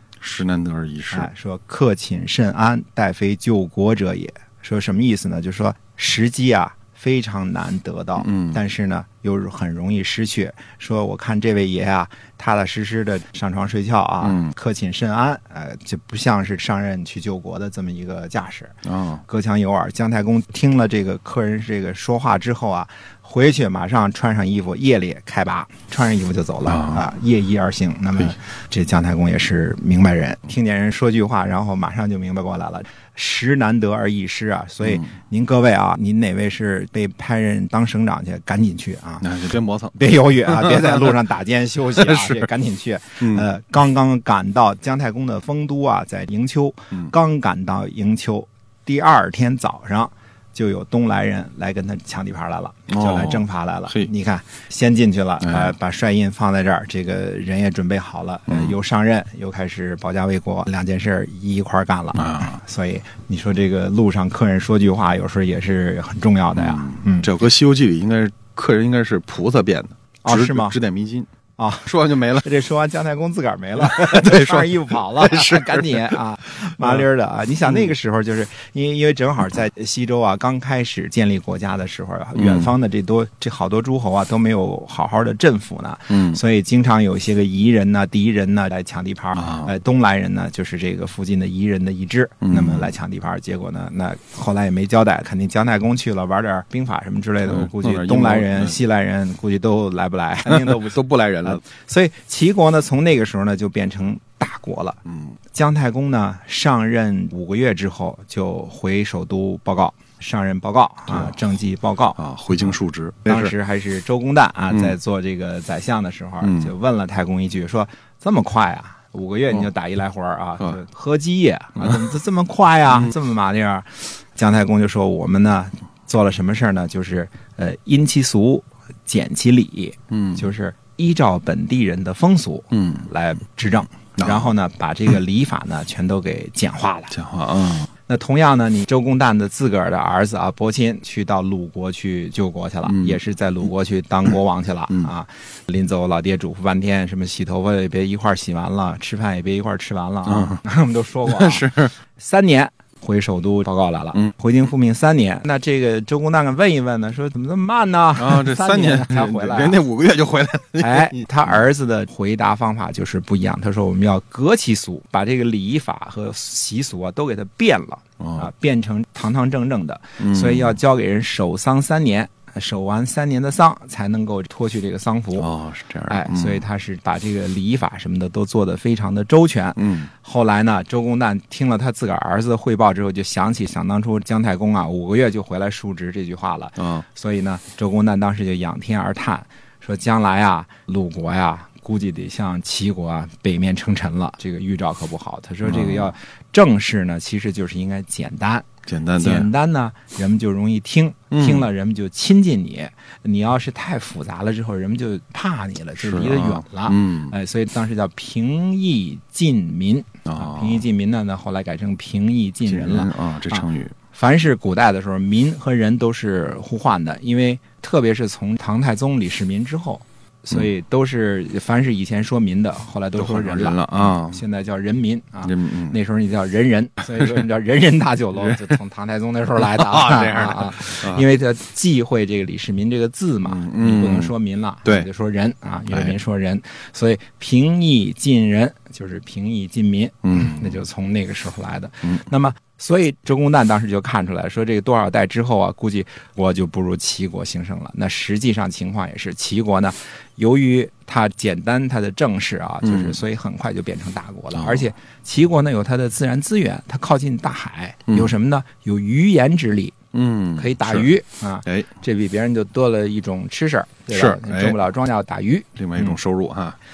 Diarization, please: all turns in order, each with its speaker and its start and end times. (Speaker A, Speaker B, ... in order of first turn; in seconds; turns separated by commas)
Speaker A: 0.2-1.3, Speaker B: 1.1-39.3, Speaker A: 8.2-8.6, Speaker A: 14.2-14.5, Speaker A: 18.9-19.2, Speaker A: 26.6-27.0, Speaker A: 34.8-35.1, Speaker A: 39.2-41.0, Speaker B: 39.9-67.3, Speaker A: 42.0-42.4, Speaker A: 43.2-43.4, Speaker A: 52.9-54.1, Speaker A: 55.4-55.7, Speaker A: 58.5-58.7, Speaker A: 62.1-62.5, Speaker A: 66.5-71.3, Speaker B: 70.2-70.8, Speaker B: 71.6-105.0, Speaker A: 71.8-72.5, Speaker A: 73.8-77.0, Speaker A: 82.3-82.7, Speaker A: 86.1-86.4, Speaker A: 89.3-89.7, Speaker A: 92.4-92.9, Speaker A: 97.4-98.8, Speaker A: 100.4-101.6, Speaker A: 105.0-105.3, Speaker B: 105.5-112.7, Speaker A: 111.1-111.3, Speaker A: 112.2-113.5, Speaker B: 113.2-137.1, Speaker A: 116.4-116.7, Speaker A: 121.8-122.0, Speaker A: 130.1-130.5, Speaker A: 132.7-133.1, Speaker A: 134.2-134.5, Speaker A: 137.1-137.9, Speaker B: 138.1-159.8, Speaker A: 142.8-143.2, Speaker A: 150.2-150.6, Speaker A: 151.2-151.9, Speaker A: 158.2-161.5, Speaker B: 160.8-175.5, Speaker A: 168.2-168.5, Speaker A: 170.2-170.8, Speaker A: 175.4-176.6, Speaker B: 176.1-259.9, Speaker A: 179.8-180.1, Speaker A: 186.8-187.0, Speaker A: 195.6-196.1, Speaker A: 198.9-199.5, Speaker A: 201.3-201.7, Speaker A: 206.0-207.3, Speaker A: 210.2-210.8, Speaker A: 212.7-213.9, Speaker A: 223.2-224.4, Speaker A: 225.4-226.0, Speaker A: 228.4-228.7, Speaker A: 229.6-231.2, Speaker A: 233.4-234.3, Speaker A: 235.9-236.1, Speaker A: 240.2-240.8, Speaker A: 252.8-253.2, Speaker A: 254.5-254.9, Speaker A: 260.1-261.1, Speaker B: 260.6-266.2, Speaker A: 261.6-261.9, Speaker A: 264.1-264.8, Speaker A: 265.8-266.8